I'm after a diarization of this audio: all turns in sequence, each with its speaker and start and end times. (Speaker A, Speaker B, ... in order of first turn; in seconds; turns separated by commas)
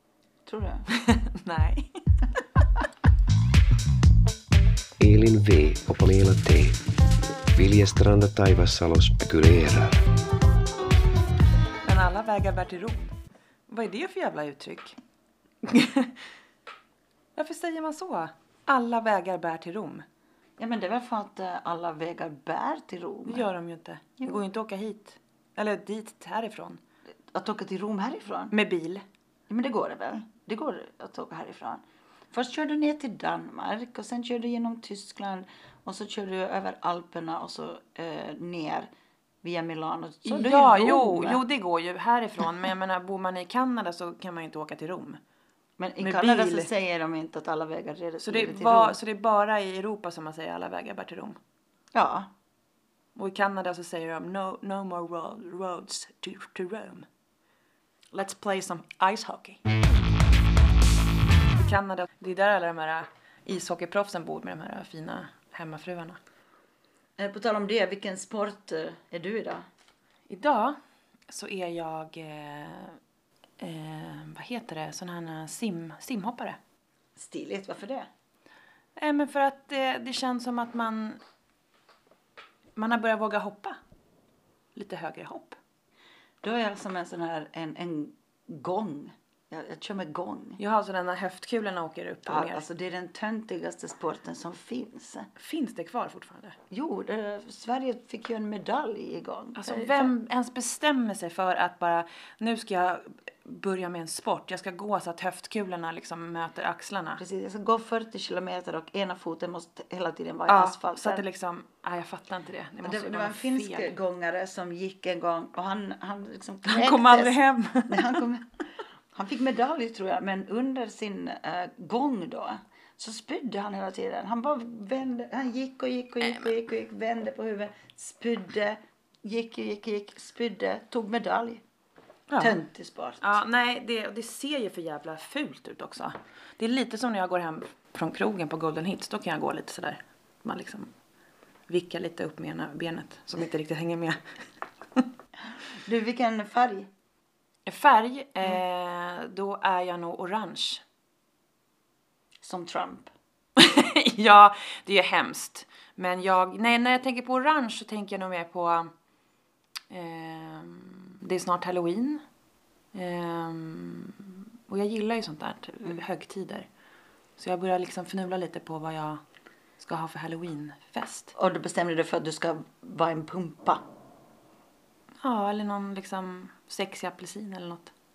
Speaker A: 0.4-0.9, Speaker B: 0.9-1.9, Speaker C: 5.0-6.8, Speaker C: 7.5-10.0, Speaker B: 11.8-13.2, Speaker B: 13.7-15.0, Speaker B: 15.6-16.2, Speaker B: 17.4-20.1, Speaker A: 20.6-23.5, Speaker B: 23.3-26.8, Speaker A: 27.3-28.5, Speaker B: 28.5-29.0, Speaker A: 29.5-38.9, Speaker A: 39.4-41.4, Speaker B: 40.2-45.2, Speaker A: 45.8-49.0, Speaker B: 46.0-46.7, Speaker B: 48.2-51.4, Speaker A: 51.9-52.3, Speaker B: 53.1-57.1, Speaker B: 58.1-59.6, Speaker B: 61.5-66.2, Speaker A: 67.2-69.6, Speaker B: 70.3-70.8, Speaker B: 71.3-73.0, Speaker B: 73.6-76.6, Speaker A: 77.2-78.1, Speaker B: 79.0-81.2, Speaker B: 82.8-83.8, Speaker B: 84.7-85.6, Speaker A: 86.4-90.6, Speaker B: 90.6-92.6, Speaker A: 92.2-95.3, Speaker B: 95.3-96.5, Speaker A: 96.7-100.1, Speaker B: 99.5-107.2, Speaker A: 107.2-111.2, Speaker B: 110.5-113.9, Speaker A: 112.8-118.5, Speaker B: 116.6-118.2, Speaker A: 119.1-131.6, Speaker B: 126.2-126.5, Speaker B: 132.3-132.6, Speaker A: 132.4-133.4, Speaker B: 133.2-140.9, Speaker B: 141.7-144.2, Speaker A: 145.8-146.9, Speaker B: 147.7-150.8, Speaker A: 152.4-153.1, Speaker B: 153.6-158.9, Speaker B: 159.9-162.2, Speaker B: 162.9-166.7, Speaker B: 167.4-169.2, Speaker B: 169.8-171.3, Speaker A: 171.3-173.8, Speaker B: 175.2-177.9